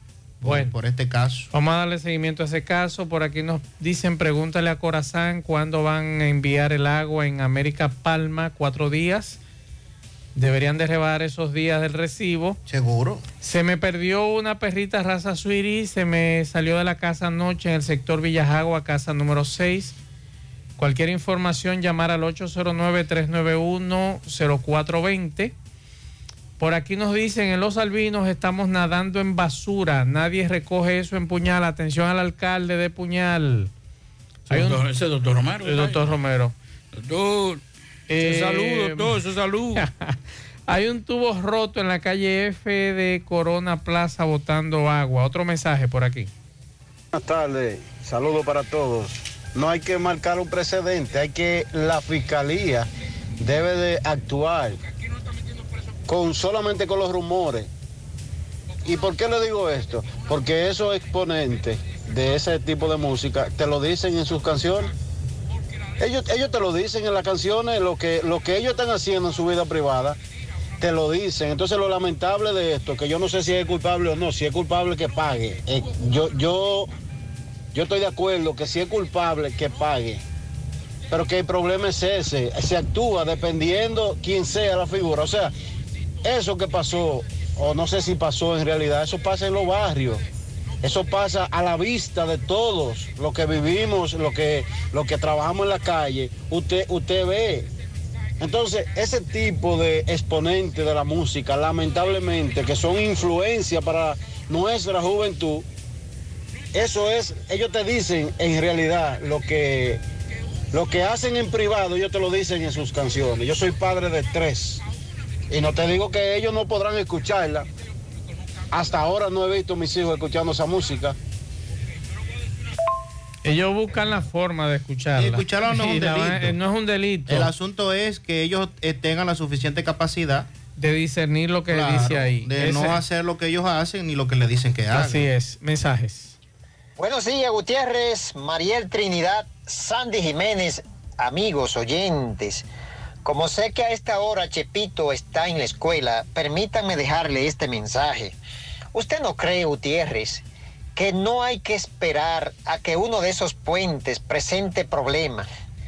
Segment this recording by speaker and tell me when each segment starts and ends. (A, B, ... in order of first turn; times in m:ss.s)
0:00.4-0:01.5 A
0:00.4-0:00.7 B
0:01.5-0:09.4 B
0:10.4-0:12.6 B
0:12.6-0:13.2 A
0:13.4-0:19.9 B
0:20.8-0:25.5 B
0:26.6-0:33.7 B
0:34.5-0:34.8 B
0:34.5-0:36.0 C
0:35.6-0:36.5 B
0:36.9-0:37.6 C
0:38.1-0:39.2 B
0:38.1-0:39.9 C
0:39.8-0:40.1 B
0:40.7-0:46.3 B
0:47.1-0:52.9 D
0:53.4-0:54.7 D
0:56.1-0:57.7 D
0:59.0-1:04.9 D
1:06.0-1:10.2 D
1:10.8-1:16.9 D
1:17.8-1:20.2 D
1:21.1-1:25.5 D
1:26.3-1:30.2 D
1:30.8-1:37.7 D
1:38.4-1:45.6 D
1:46.8-1:50.0 D
1:50.7-1:54.8 D
1:55.5-1:57.6 D
1:58.8-2:01.2 D
2:03.4-2:07.5 B
2:05.2-2:06.6 A
2:07.3-2:10.5 A
2:10.8-2:13.0 B
2:11.7-2:15.3 A
2:14.9-2:16.4 B
2:17.0-2:22.6 E
2:23.2-2:28.4 E
2:28.9-2:30.4 E
2:31.0-2:35.5 E